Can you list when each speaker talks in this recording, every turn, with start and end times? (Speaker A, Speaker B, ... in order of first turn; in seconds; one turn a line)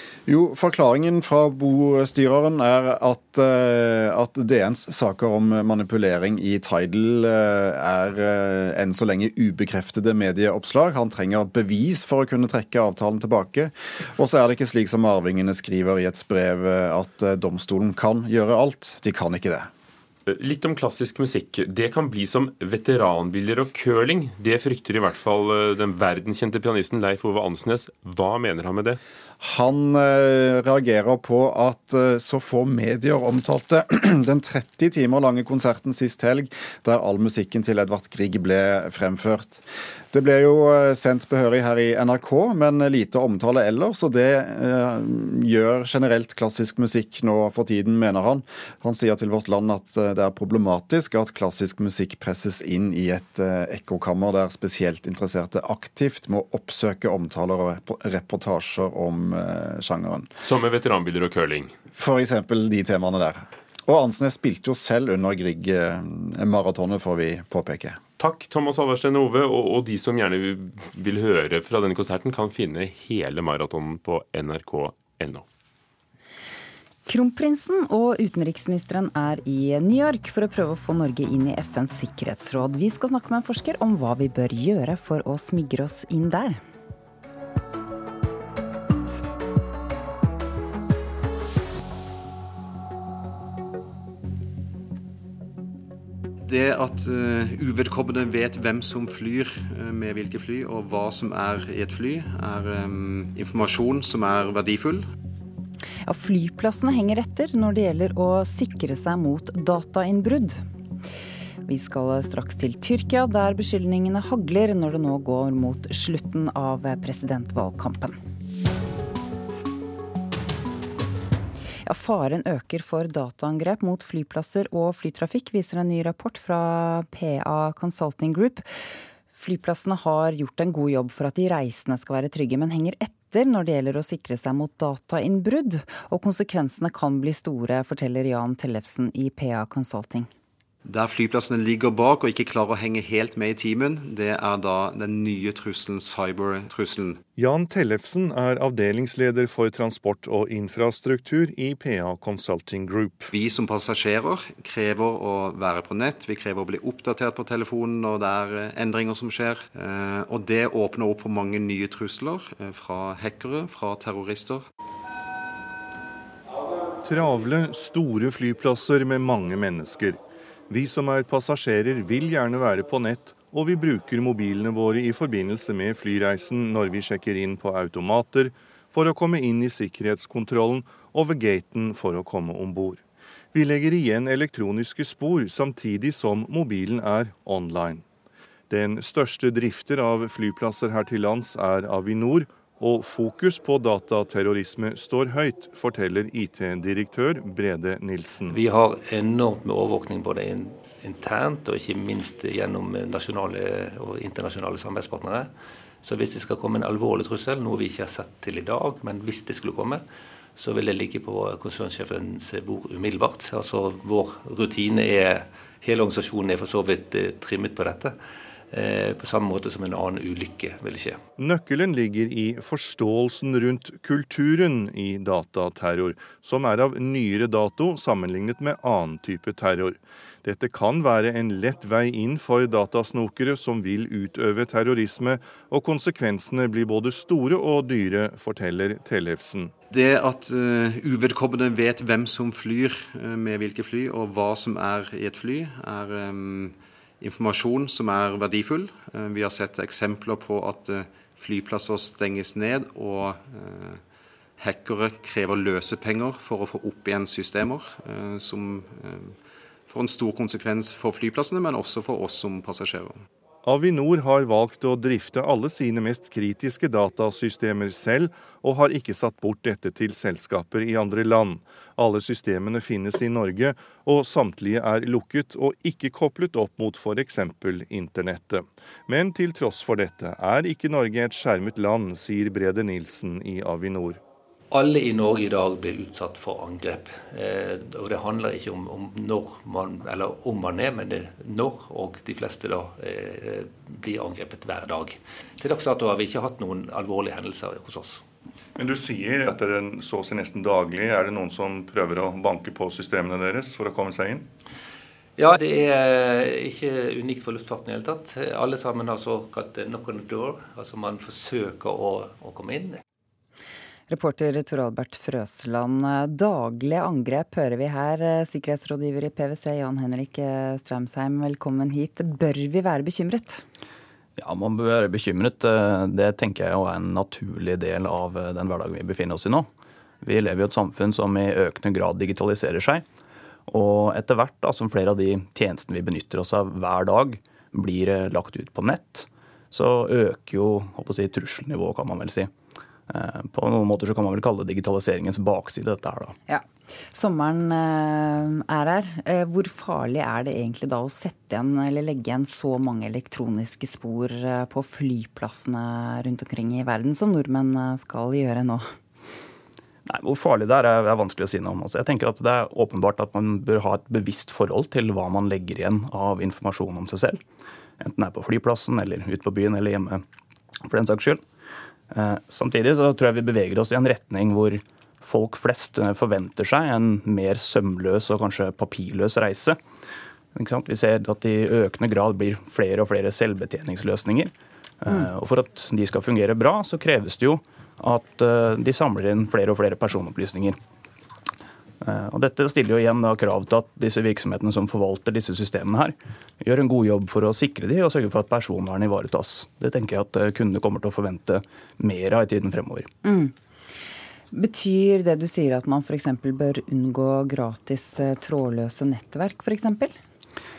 Speaker A: 0.3-19.7
Speaker B: 20.3-29.0
Speaker A: 29.4-60.3
Speaker B: 60.4-61.7
Speaker A: 61.9-68.0
Speaker B: 68.2-75.5
Speaker C: 77.1-86.6
Speaker D: 96.5-105.1
Speaker C: 106.1-110.6
Speaker C: 111.7-118.2
Speaker C: 121.9-128.6
Speaker C: 129.3-140.3
Speaker D: 140.9-147.2
Speaker E: 147.4-153.3
Speaker D: 153.3-164.7
Speaker E: 167.0-183.0
Speaker E: 183.5-188.1
Speaker E: 188.7-198.6
Speaker F: 198.5-205.5
Speaker F: 206.0-210.0
Speaker F: 210.6-218.2
Speaker F: 218.7-221.2
Speaker E: 221.4-239.7
Speaker D: 239.9-254.0
Speaker D: 254.6-259.4
Speaker D: 259.9-263.2
Speaker E: 263.6-284.2
Speaker F: 284.7-298.2
Speaker E: 298.8-304.5
Speaker F: 305.4-313.0
Speaker C: 314.1-323.6
Speaker G: 324.4-329.7
Speaker G: 330.2-333.1
Speaker G: 333.7-342.5
Speaker G: 343.1-346.3
Speaker C: 346.5-358.9
Speaker G: 360.1-367.4
Speaker G: 368.0-370.2
Speaker G: 370.9-371.4
Speaker G: 372.1-379.8
Speaker G: 380.6-390.8
Speaker G: 392.0-403.1
Speaker C: 403.2-403.5
Speaker C: 404.5-410.2